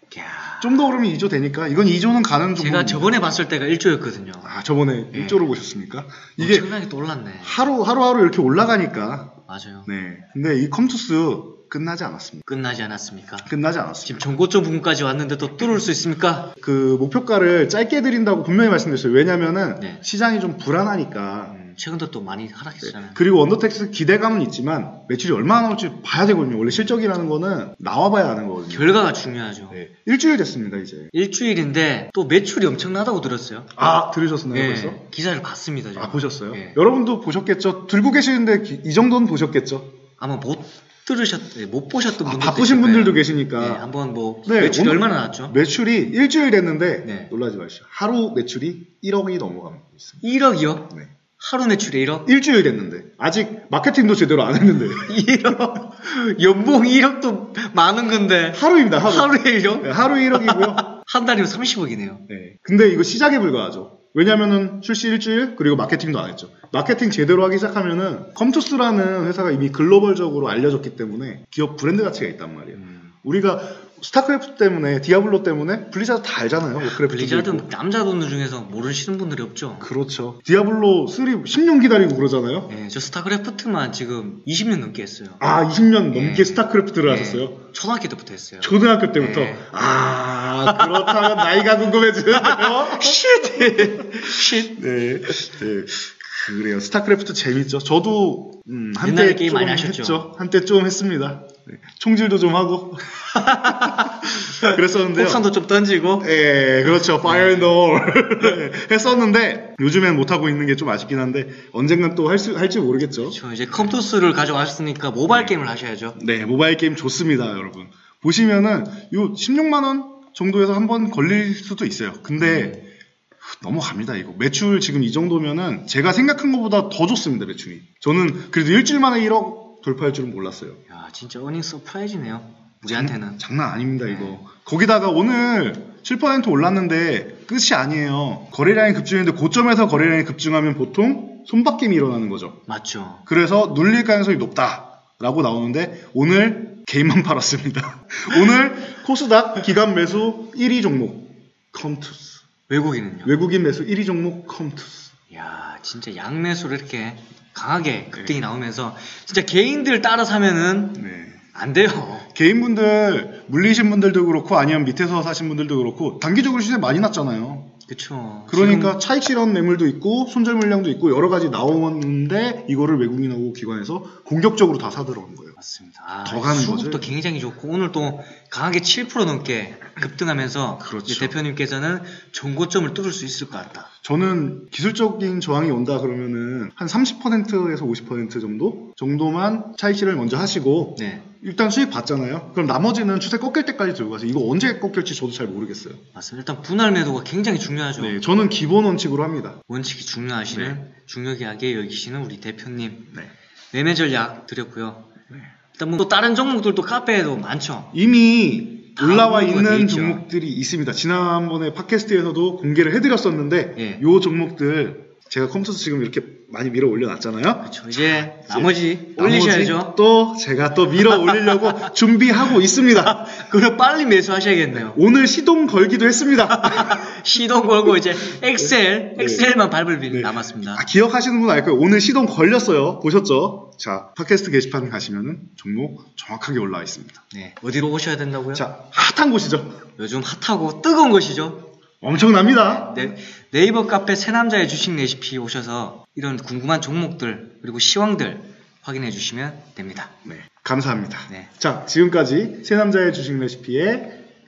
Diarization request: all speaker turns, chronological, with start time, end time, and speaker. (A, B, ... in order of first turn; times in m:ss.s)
0:00.1-0:00.8 A
0:00.6-0:03.4 B
0:02.6-0:04.5 A
0:04.4-0:06.7 B
0:05.1-0:05.4 A
0:06.4-0:07.7 A
0:07.4-0:09.3 B
0:09.5-0:09.9 A
0:09.9-0:12.4 B
0:12.4-0:13.5 A
0:13.4-0:14.3 B
0:14.0-0:16.5 A
0:16.6-0:21.5 B
0:21.5-0:23.2 A
0:22.8-0:29.1 B
0:28.7-0:29.8 A
0:29.7-0:31.1 B
0:31.1-0:33.7 A
0:33.7-0:35.0 B
0:34.5-0:36.8 A
0:36.0-0:39.9 B
0:40.2-0:45.5 A
0:42.2-0:43.8 B
0:44.4-0:50.2 B
0:47.0-0:47.3 A
0:50.2-0:52.3 A
0:52.2-0:55.3 B
0:55.0-1:02.2 A
0:58.5-1:00.8 B
1:02.3-1:17.7 B
1:12.8-1:13.0 A
1:16.8-1:19.9 A
1:19.8-1:22.7 B
1:22.7-1:25.4 A
1:25.4-1:27.6 B
1:26.1-1:29.8 A
1:28.6-1:45.4 B
1:30.6-1:31.6 A
1:32.3-1:34.7 A
1:39.0-1:40.3 A
1:43.3-1:46.3 A
1:46.2-1:54.0 B
1:47.2-1:47.7 A
1:53.2-1:56.2 A
1:55.3-1:55.6 B
1:56.2-2:02.8 B
2:02.4-2:02.8 A
2:03.4-2:10.8 B
2:10.9-2:13.4 A
2:12.9-2:22.6 B
2:14.0-2:14.4 A
2:22.7-2:23.2 A
2:23.3-2:32.4 B
2:32.7-2:33.3 A
2:33.2-2:35.1 B
2:35.3-2:41.0 A
2:38.1-2:38.5 B
2:41.0-2:41.4 B
2:41.5-2:42.3 A
2:42.3-2:47.7 B
2:47.9-2:49.0 A
2:48.5-2:55.5 B
2:55.6-3:03.9 A
2:56.2-2:57.1 B
3:00.8-3:01.4 B
3:04.0-3:16.0 B
3:11.0-3:11.2 A
3:16.1-3:18.2 A
3:18.0-3:19.6 B
3:19.7-3:23.1 A
3:20.5-3:20.8 B
3:23.7-3:25.0 A
3:25.7-3:27.9 A
3:27.9-3:43.2 B
3:29.0-3:30.2 A
3:33.8-3:34.0 A
3:37.6-3:40.0 A
3:41.0-3:41.9 A
3:42.9-3:45.0 A
3:44.7-3:47.1 B
3:46.5-3:50.8 A
3:47.9-3:49.5 B
3:50.1-3:57.2 B
3:57.3-3:58.7 A
3:58.5-3:59.8 B
4:00.0-4:01.6 A
4:02.0-4:03.1 B
4:02.5-4:10.1 A
4:10.2-4:14.2 B